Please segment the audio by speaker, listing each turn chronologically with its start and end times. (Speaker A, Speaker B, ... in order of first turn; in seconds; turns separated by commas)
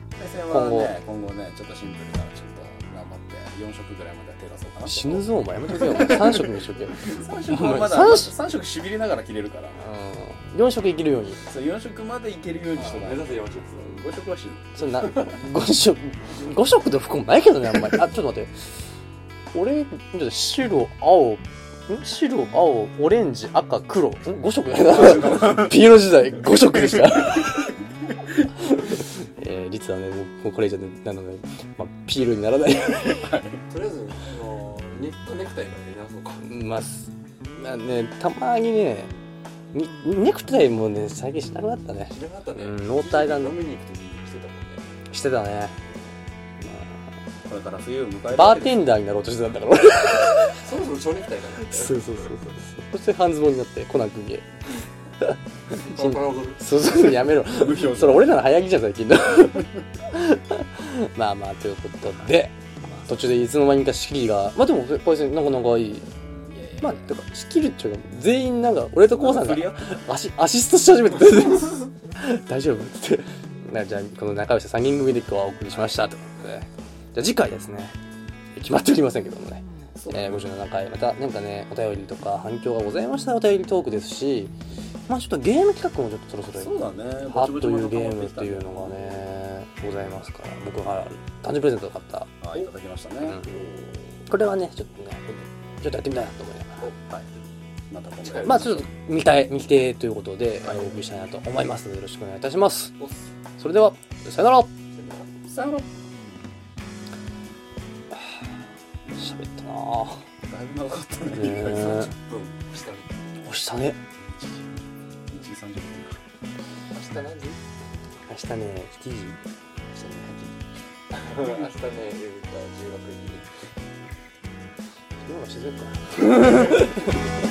Speaker A: 0.2-9.8, Speaker B: 0.5-0.9, Speaker B: 4.8-8.3, Speaker B: 9.8-11.4, Speaker A: 11.5-14.8, Speaker C: 12.8-14.2, Speaker B: 14.8-18.5, Speaker C: 14.9-15.4, Speaker B: 19.5-27.8, Speaker A: 24.9-25.7, Speaker B: 28.6-33.4, Speaker A: 33.1-33.6, Speaker C: 33.7-36.4, Speaker B: 36.4-39.1, Speaker B: 39.7-43.6, Speaker C: 42.1-44.9, Speaker B: 45.1-45.8, Speaker A: 47.5-48.9, Speaker B: 48.3-50.6, Speaker C: 50.4-52.5, Speaker B: 51.6-54.5, Speaker B: 55.2-66.1, Speaker C: 55.8-56.6, Speaker A: 57.4-58.4, Speaker A: 62.8-63.3, Speaker A: 66.3-67.1, Speaker B: 66.8-78.0, Speaker A: 69.1-70.0, Speaker B: 78.5-84.5, Speaker A: 80.0-80.4, Speaker B: 85.1-92.3, Speaker A: 86.5-89.0, Speaker A: 92.4-93.4, Speaker B: 93.2-93.5, Speaker C: 93.4-94.1, Speaker B: 94.3-96.9, Speaker A: 97.1-98.9, Speaker C: 98.2-98.8, Speaker B: 98.4-103.0, Speaker C: 103.0-103.3, Speaker B: 103.6-104.7, Speaker C: 104.9-105.3, Speaker A: 105.5-106.3, Speaker B: 109.2-110.2, Speaker A: 110.5-112.2, Speaker B: 111.3-112.1, Speaker C: 111.7-113.4, Speaker B: 113.4-114.0, Speaker A: 114.2-114.7, Speaker A: 115.3-116.2, Speaker C: 116.9-117.6, Speaker B: 118.3-119.4, Speaker A: 119.9-120.5, Speaker C: 121.1-123.5, Speaker B: 125.2-127.2